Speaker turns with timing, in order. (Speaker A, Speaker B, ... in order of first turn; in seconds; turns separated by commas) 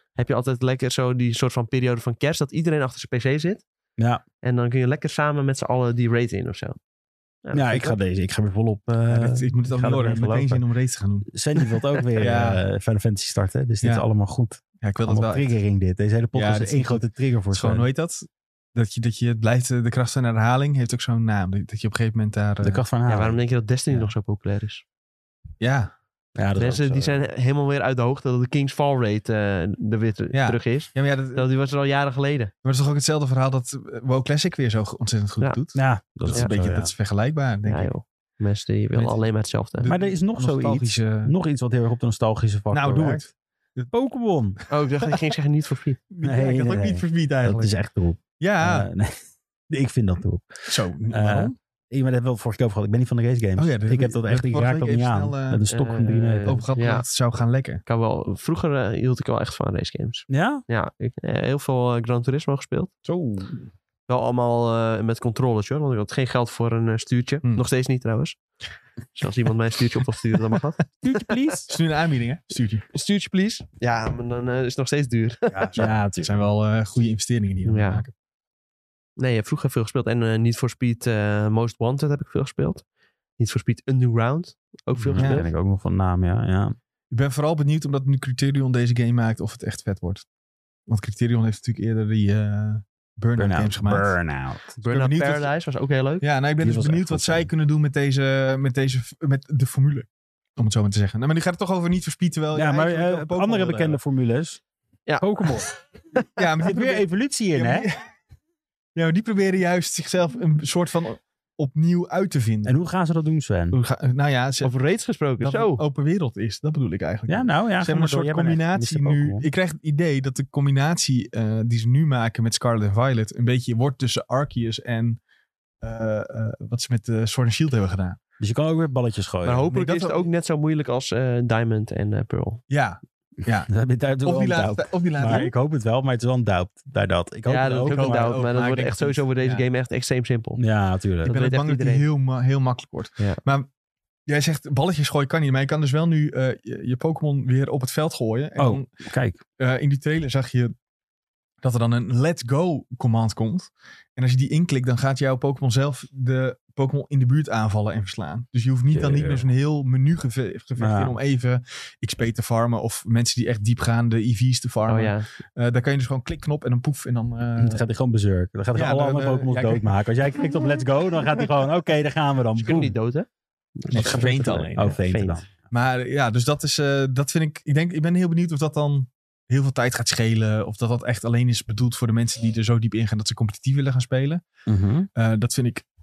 Speaker A: 0.1-3.6, Speaker B: 4.0-4.2, Speaker A: 4.4-6.8, Speaker A: 7.4-8.0, Speaker B: 7.5-10.6, Speaker C: 9.1-11.3, Speaker B: 11.3-17.9, Speaker C: 12.2-12.6, Speaker C: 14.8-15.5, Speaker C: 16.3-22.8, Speaker B: 22.6-23.4, Speaker A: 23.1-24.8, Speaker C: 25.6-25.9, Speaker B: 26.3-27.2, Speaker A: 26.6-32.5, Speaker C: 30.3-31.5, Speaker C: 32.6-37.9, Speaker B: 35.7-36.9, Speaker A: 37.6-39.9, Speaker C: 39.8-41.3, Speaker B: 39.8-43.2, Speaker C: 42.7-43.9, Speaker B: 43.9-44.6, Speaker A: 44.7-46.0, Speaker C: 46.1-47.7, Speaker B: 46.2-56.6, Speaker C: 48.4-48.9, Speaker C: 50.7-51.5, Speaker C: 53.6-55.6, Speaker A: 55.7-57.0, Speaker C: 56.5-57.8, Speaker A: 57.9-62.9, Speaker B: 60.3-60.6, Speaker B: 63.1-63.4, Speaker A: 64.1-68.4, Speaker A: 69.1-71.2, Speaker B: 71.0-71.7, Speaker C: 71.7-72.8, Speaker A: 72.9-75.9, Speaker C: 75.5-78.1, Speaker B: 75.7-76.4, Speaker A: 77.7-78.0, Speaker A: 79.2-82.8, Speaker A: 83.4-85.5, Speaker B: 85.0-86.8, Speaker C: 85.1-85.4, Speaker C: 87.1-90.2, Speaker C: 90.9-94.2, Speaker B: 93.4-94.8, Speaker A: 94.8-96.2, Speaker C: 94.8-95.5, Speaker C: 96.2-104.0, Speaker B: 96.6-97.5, Speaker B: 102.5-104.6, Speaker A: 105.1-106.2, Speaker B: 105.2-105.7, Speaker C: 106.3-108.1, Speaker B: 106.6-107.9, Speaker C: 108.9-112.7, Speaker B: 112.6-113.8, Speaker C: 113.7-114.7, Speaker A: 114.6-115.8, Speaker C: 115.4-125.2, Speaker B: 117.3-119.5, Speaker C: 125.8-128.2, Speaker B: 128.4-129.7, Speaker A: 129.4-132.6, Speaker C: 129.7-130.3, Speaker C: 132.7-133.7, Speaker B: 133.7-138.4, Speaker C: 134.2-135.5, Speaker A: 137.4-140.6, Speaker C: 137.8-139.6, Speaker B: 140.6-141.3, Speaker A: 141.2-142.0, Speaker C: 141.2-143.7, Speaker C: 144.3-148.9, Speaker B: 148.6-149.4, Speaker C: 149.6-150.7, Speaker C: 151.6-167.8, Speaker A: 159.0-159.4, Speaker B: 160.8-161.1, Speaker A: 164.9-165.2, Speaker B: 167.6-172.9, Speaker C: 168.7-169.9, Speaker A: 172.6-173.3, Speaker A: 173.8-175.4, Speaker C: 173.9-175.0, Speaker B: 173.9-175.5, Speaker C: 175.7-184.4, Speaker B: 184.7-185.1, Speaker C: 185.1-185.8